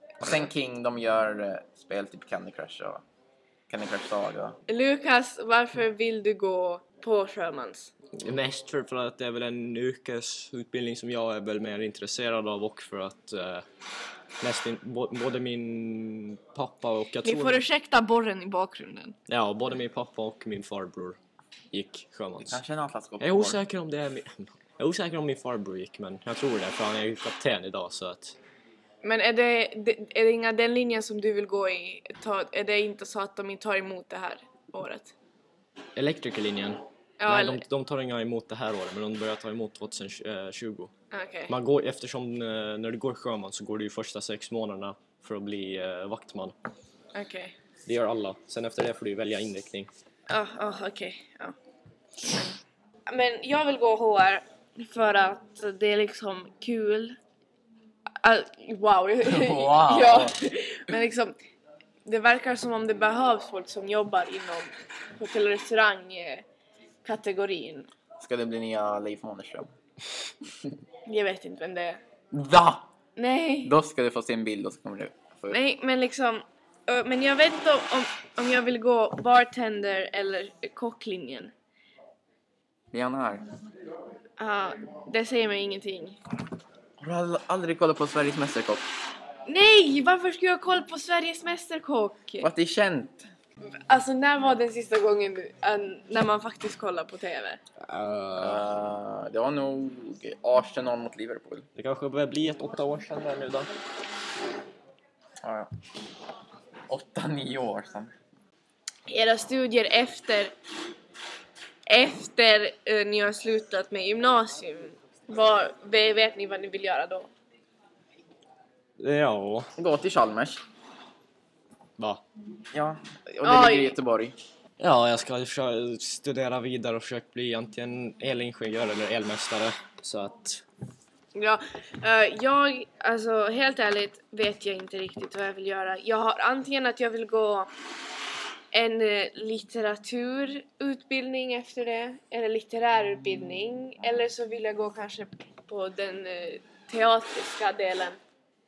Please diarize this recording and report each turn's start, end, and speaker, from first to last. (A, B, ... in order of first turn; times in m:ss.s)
0:00.2-0:03.0 A
0:03.7-0:04.6 A
0:04.7-0:07.9 B
0:08.2-0:13.6 C
0:14.4-0:17.6 C
0:17.2-0:19.2 B
0:19.3-0:21.2 C
0:21.7-0:22.6 C
0:22.4-0:23.6 A
0:23.2-0:28.4 C
0:29.0-0:35.2 B
0:36.0-0:40.9 C
0:37.2-0:37.6 B
0:41.1-0:41.5 B
0:41.5-0:46.5 C
0:47.1-0:47.6 B
0:47.9-0:49.9 C
0:50.3-0:51.6 B
0:52.3-0:52.6 B
0:53.1-0:57.2 B
0:58.2-1:01.4 B
0:59.2-1:00.4 A
1:02.0-1:06.4 B
1:07.0-1:07.9 B
1:08.2-1:09.7 A
1:11.0-1:12.0 B
1:12.3-1:12.9 A
1:13.2-1:13.8 B
1:13.6-1:15.6 A
1:15.5-1:21.5 B
1:22.9-1:23.5 A
1:24.4-1:26.2 B
1:27.0-1:28.8 A
1:29.5-1:32.5 B
1:32.4-1:33.3 A
1:33.9-1:37.6 B
1:37.8-1:38.6 C
1:38.4-1:41.7 A
1:41.8-1:43.7 C
1:45.4-1:45.7 A
1:46.9-1:48.1 A
1:49.1-1:50.5 B
1:51.9-1:57.3 B
1:59.0-1:59.7 C
1:59.8-2:00.6 A
2:02.7-2:04.4 A
2:03.4-2:04.0 B
2:04.8-2:10.6 C
2:11.4-2:17.7 B
2:18.7-2:28.2 B